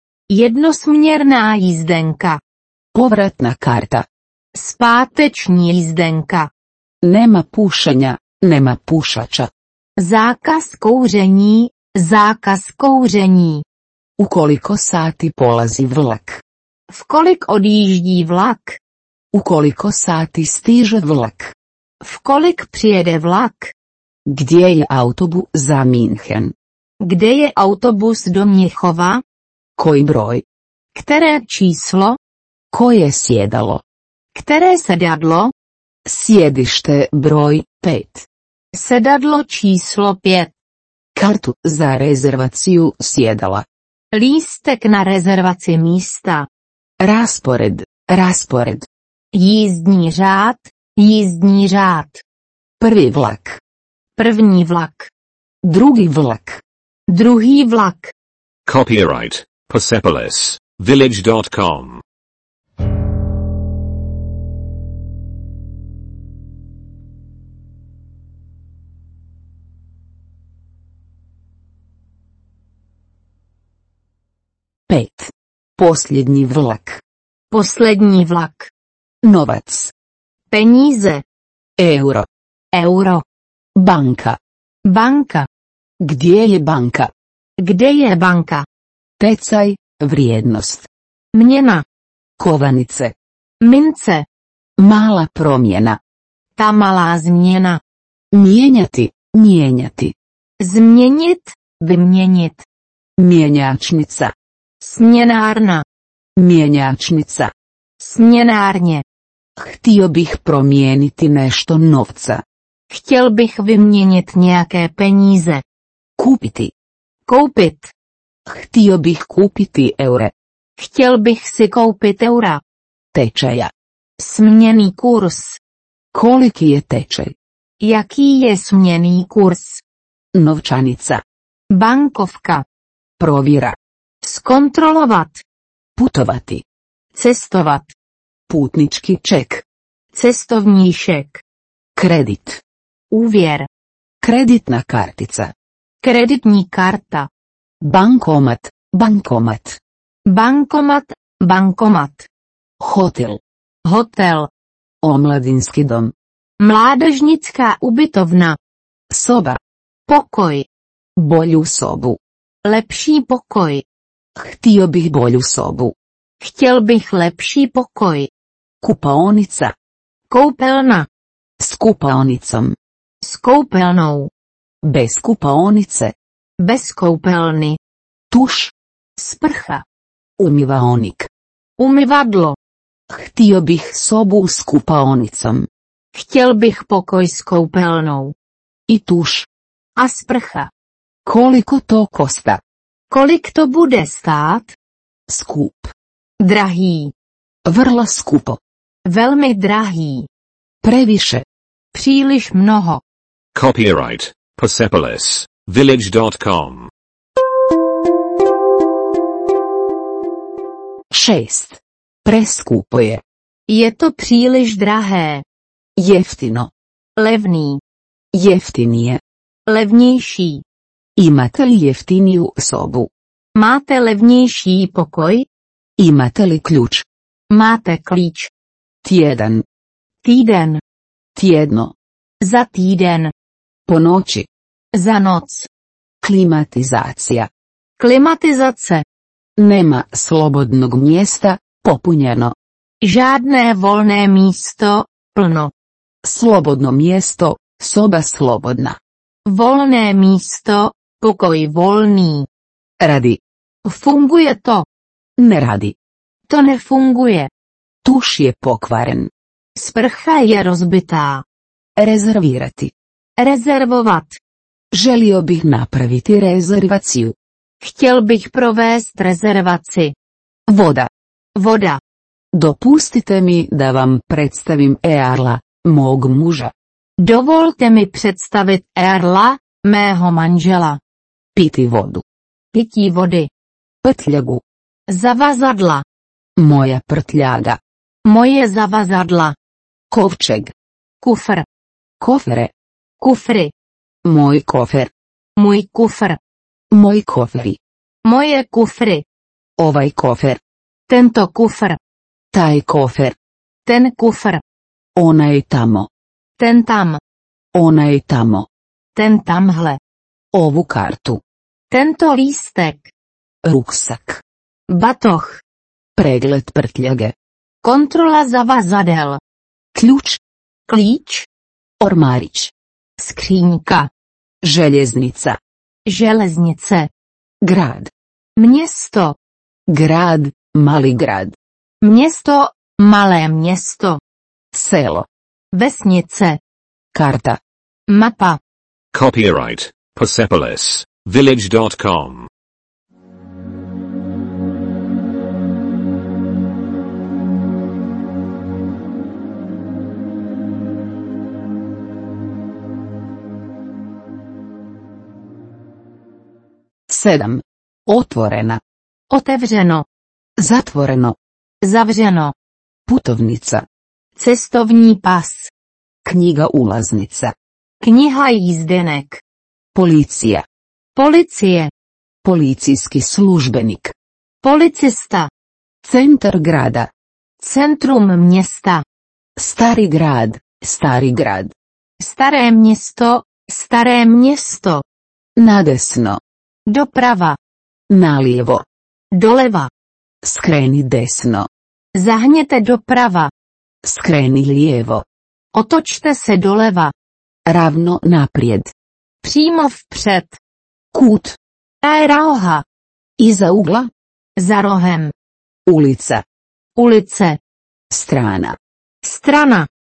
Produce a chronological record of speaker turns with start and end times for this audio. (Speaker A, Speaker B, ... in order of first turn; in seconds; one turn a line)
Speaker A: 0.3-2.4
Speaker B: 2.9-4.0
Speaker A: 4.5-6.5
Speaker B: 7.0-9.5
Speaker A: 10.0-13.6
Speaker B: 14.2-16.4
Speaker A: 16.9-18.8
Speaker B: 19.3-21.5
Speaker A: 22.0-23.7
Speaker B: 24.3-26.5
Speaker A: 27.0-29.2
Speaker B: 29.8-30.4
Speaker A: 30.9-32.2
Speaker B: 32.7-33.8
Speaker A: 34.3-35.5
Speaker B: 36.0-38.2
Speaker A: 38.7-40.5
Speaker B: 41.1-43.6
Speaker A: 44.1-46.5
Speaker B: 47.0-48.9
Speaker A: 49.3-52.2
Speaker B: 52.8-53.6
Speaker A: 54.2-55.1
Speaker B: 55.6-56.6
Speaker A: 57.1-58.1
Speaker C: 58.6-62.0
Speaker B: 74.9-77.0
Speaker A: 77.5-78.7
Speaker B: 79.2-79.9
Speaker A: 80.5-81.2
Speaker B: 81.8-82.3
Speaker A: 82.7-83.2
Speaker B: 83.8-84.4
Speaker A: 84.8-85.5
Speaker B: 86.0-87.1
Speaker A: 87.6-88.6
Speaker B: 89.2-90.9
Speaker A: 91.3-91.8
Speaker B: 92.4-93.1
Speaker A: 93.6-94.2
Speaker B: 94.8-96.0
Speaker A: 96.5-97.8
Speaker B: 98.3-100.1
Speaker A: 100.6-102.6
Speaker B: 103.2-104.3
Speaker A: 104.8-105.8
Speaker B: 106.4-107.5
Speaker A: 108.0-109.0
Speaker B: 109.6-112.4
Speaker A: 112.9-115.6
Speaker B: 116.2-116.7
Speaker A: 117.2-117.9
Speaker B: 118.5-120.3
Speaker A: 120.8-122.6
Speaker B: 123.1-123.7
Speaker A: 124.2-125.6
Speaker B: 126.1-127.3
Speaker A: 127.8-129.8
Speaker B: 130.3-131.2
Speaker A: 131.7-132.6
Speaker B: 133.2-133.8
Speaker A: 134.2-135.4
Speaker B: 136.0-136.6
Speaker A: 137.1-137.9
Speaker B: 138.5-139.6
Speaker A: 140.1-141.4
Speaker B: 141.9-142.6
Speaker A: 143.1-143.7
Speaker B: 144.2-145.5
Speaker A: 146.0-147.3
Speaker B: 147.8-149.8
Speaker A: 150.3-152.3
Speaker B: 152.8-153.4
Speaker A: 153.8-154.5
Speaker B: 155.0-156.1
Speaker A: 156.6-158.6
Speaker B: 159.1-159.6
Speaker A: 160.1-160.7
Speaker B: 161.2-162.2
Speaker A: 162.6-163.8
Speaker B: 164.4-165.9
Speaker A: 166.4-168.3
Speaker B: 168.8-169.7
Speaker A: 170.3-171.1
Speaker B: 171.6-172.8
Speaker A: 173.2-174.3
Speaker B: 174.8-176.1
Speaker A: 176.6-177.8
Speaker B: 178.3-178.7
Speaker A: 179.2-179.8
Speaker B: 180.4-181.3
Speaker A: 181.8-182.6
Speaker B: 183.1-185.7
Speaker A: 186.1-188.3
Speaker B: 188.9-189.5
Speaker A: 190.0-190.7
Speaker B: 191.2-192.6
Speaker A: 193.1-194.8
Speaker B: 195.3-195.9
Speaker A: 196.4-197.1
Speaker B: 197.7-198.6
Speaker A: 199.1-200.3
Speaker B: 200.8-201.4
Speaker A: 201.9-203.0
Speaker C: 203.5-206.9
Speaker B: 211.1-213.2
Speaker A: 213.7-215.4
Speaker B: 216.0-216.7
Speaker A: 217.2-217.8
Speaker B: 218.3-219.2
Speaker A: 219.7-220.6
Speaker B: 221.2-223.1
Speaker A: 223.6-225.5
Speaker B: 226.0-227.1
Speaker A: 227.5-228.5
Speaker B: 229.0-229.6
Speaker A: 230.2-230.8
Speaker B: 231.4-231.9
Speaker A: 232.4-233.3
Speaker B: 233.9-234.5
Speaker A: 234.9-235.7
Speaker B: 236.2-237.5
Speaker A: 238.0-239.0
Speaker B: 239.6-242.5
Speaker A: 243.0-245.7
Speaker B: 246.2-249.0
Speaker A: 249.4-252.5
Speaker B: 253.0-253.4
Speaker A: 253.8-254.8
Speaker B: 255.4-255.9
Speaker A: 256.5-257.5
Speaker B: 258.0-259.3
Speaker A: 259.8-261.4
Speaker B: 262.0-262.9
Speaker A: 263.4-264.4
Speaker B: 264.9-267.4
Speaker A: 267.8-270.1
Speaker B: 270.7-271.1
Speaker A: 271.6-272.0
Speaker B: 272.5-276.7
Speaker A: 277.2-281.0
Speaker B: 281.5-282.2
Speaker A: 282.7-283.5
Speaker B: 284.0-284.6
Speaker A: 285.1-286.0
Speaker B: 286.6-287.8
Speaker A: 288.2-289.6
Speaker B: 290.1-290.7
Speaker A: 291.2-291.6
Speaker B: 292.2-292.7
Speaker A: 293.2-293.7
Speaker B: 294.2-295.1
Speaker A: 295.6-296.4
Speaker B: 296.9-297.8
Speaker A: 298.2-299.2
Speaker B: 299.8-300.6
Speaker A: 301.1-302.0
Speaker B: 302.5-303.4
Speaker A: 303.9-304.6
Speaker B: 305.1-306.1
Speaker A: 306.6-307.2
Speaker B: 307.8-308.7
Speaker A: 309.1-310.0
Speaker B: 310.5-311.4
Speaker A: 311.9-313.1
Speaker B: 313.6-314.4
Speaker A: 314.9-315.6
Speaker B: 316.1-317.3
Speaker A: 317.8-319.4
Speaker B: 319.9-320.4
Speaker A: 320.9-321.5
Speaker B: 322.0-322.7
Speaker A: 323.2-324.1
Speaker B: 324.6-325.6
Speaker A: 326.1-327.1
Speaker B: 327.6-328.1
Speaker A: 328.6-329.4
Speaker B: 329.9-331.6
Speaker A: 332.0-334.2
Speaker B: 334.7-335.3
Speaker A: 335.7-336.6
Speaker B: 337.1-337.6
Speaker A: 338.1-338.6
Speaker C: 339.1-342.5
Speaker B: 357.1-358.8
Speaker A: 359.3-360.1
Speaker B: 360.6-361.4
Speaker A: 361.8-362.5
Speaker B: 363.1-363.9
Speaker A: 364.4-365.7
Speaker B: 366.2-367.5
Speaker A: 368.0-369.4
Speaker B: 369.9-370.6
Speaker A: 371.1-371.9
Speaker B: 372.4-374.1
Speaker A: 374.6-375.5
Speaker B: 376.0-377.1
Speaker A: 377.6-379.0
Speaker B: 379.6-381.7
Speaker A: 382.2-385.0
Speaker B: 385.6-386.4
Speaker A: 386.9-387.6
Speaker B: 388.1-388.9
Speaker A: 389.3-389.9
Speaker B: 390.4-391.7
Speaker A: 392.1-393.5
Speaker B: 394.0-395.2
Speaker A: 395.7-397.1
Speaker B: 397.6-398.9
Speaker A: 399.4-400.6
Speaker B: 401.1-401.6
Speaker A: 402.0-402.8
Speaker B: 403.4-404.1
Speaker A: 404.6-405.3
Speaker B: 405.9-406.4
Speaker A: 406.9-407.6
Speaker B: 408.1-408.8
Speaker A: 409.2-409.9